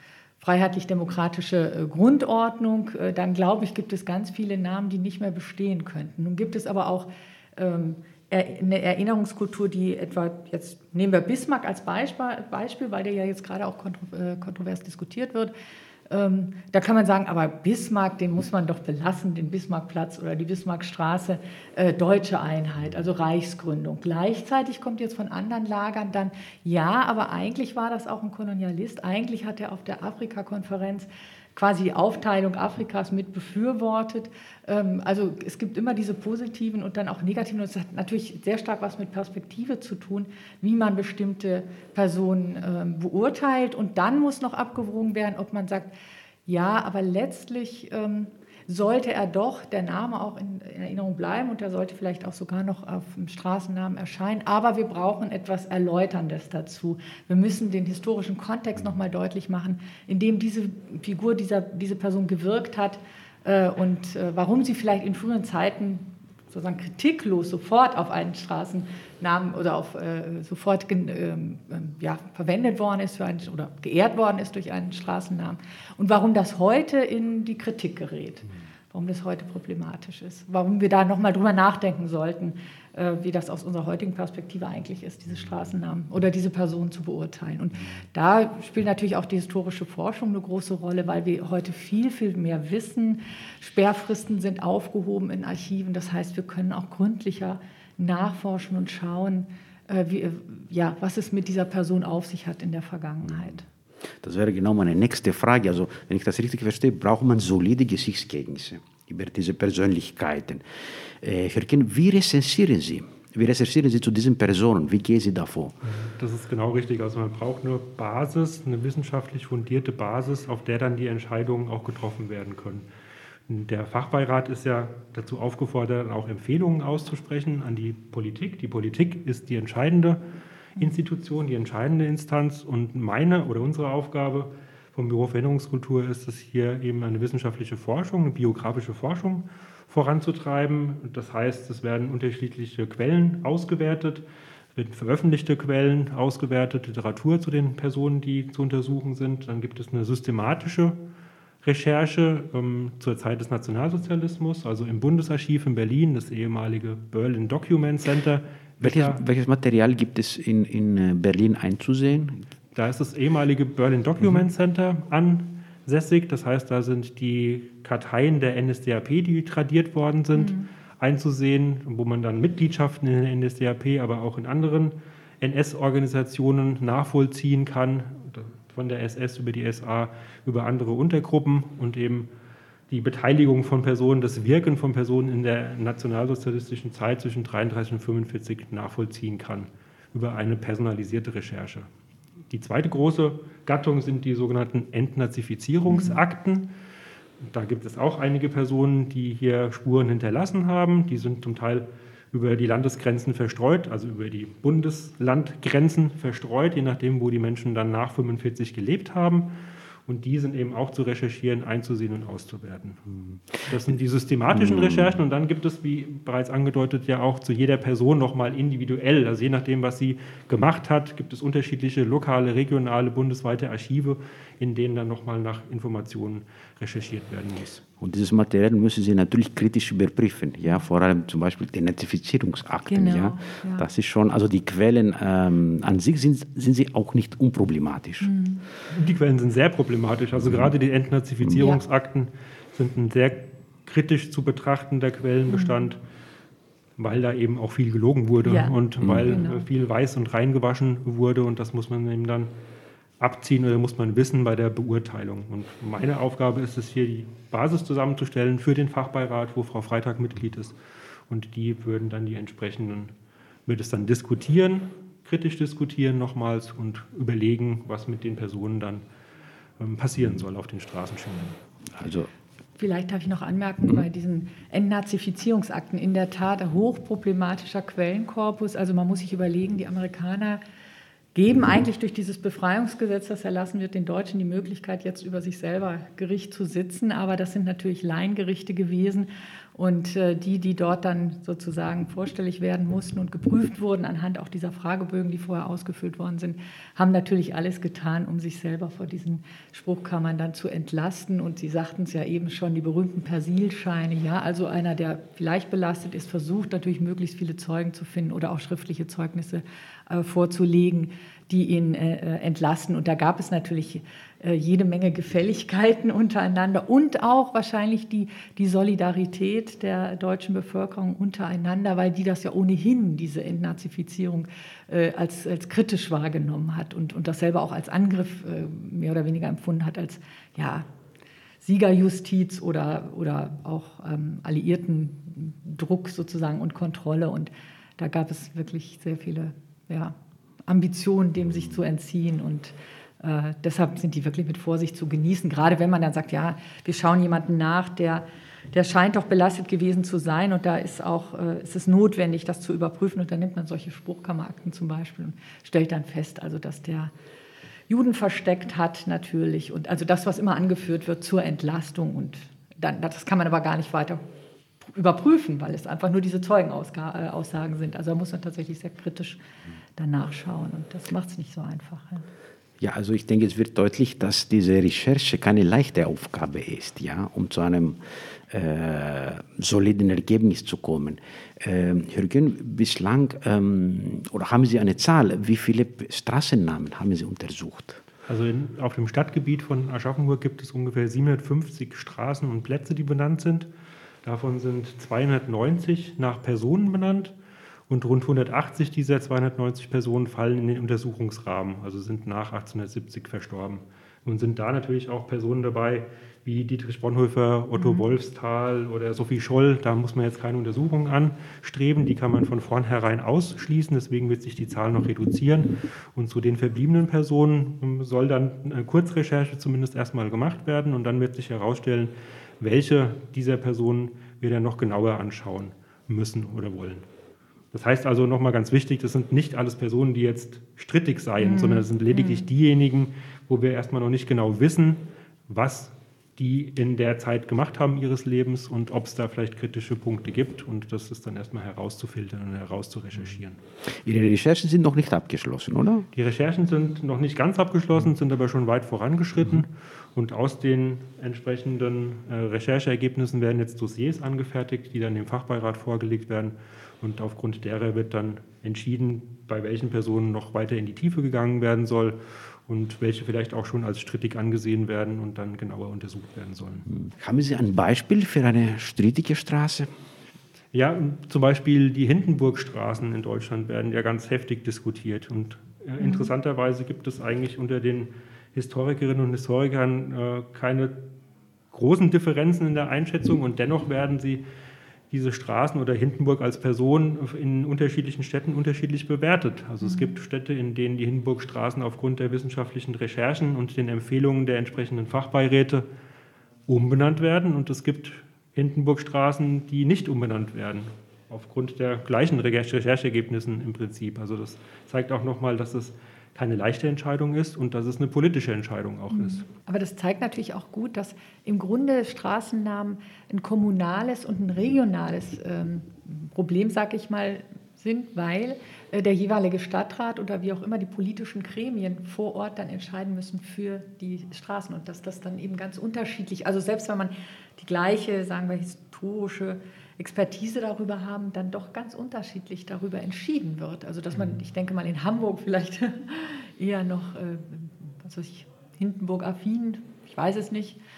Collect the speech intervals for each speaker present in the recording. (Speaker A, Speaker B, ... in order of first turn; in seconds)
Speaker A: 0.4-15.5, 16.1-45.9, 46.5-103.7, 170.3-170.7, 195.9-196.2, 232.9-233.9, 238.2-238.6, 245.5-245.8, 248.4-249.6, 272.8-280.6, 281.3-330.8, 331.6-357.1, 357.9-364.2, 364.8-369.4, 369.9-372.2, 407.7-408.0, 431.4-432.4, 476.0-476.3, 489.8-490.1, 509.1-540.8
Speaker B: 104.2-110.6, 111.2-115.7, 158.8-162.5, 214.5-215.2, 228.0-238.3, 249.0-249.3, 271.9-272.3, 372.8-378.0, 378.5-388.0, 444.0-446.1, 466.9-469.9
Speaker C: 115.8-122.8, 123.5-130.2, 130.8-151.0, 151.6-159.2, 162.7-182.3, 182.9-191.9, 192.5-196.7, 197.4-209.5, 210.1-213.0, 213.6-227.8, 238.9-246.0, 247.0-252.5, 253.2-260.8, 261.3-263.1, 263.7-269.0, 269.8-271.6, 388.2-393.7, 394.2-397.3, 397.9-427.1, 427.7-443.6, 446.1-466.9, 470.7-481.0, 481.7-484.4, 485.1-495.9, 496.7-509.4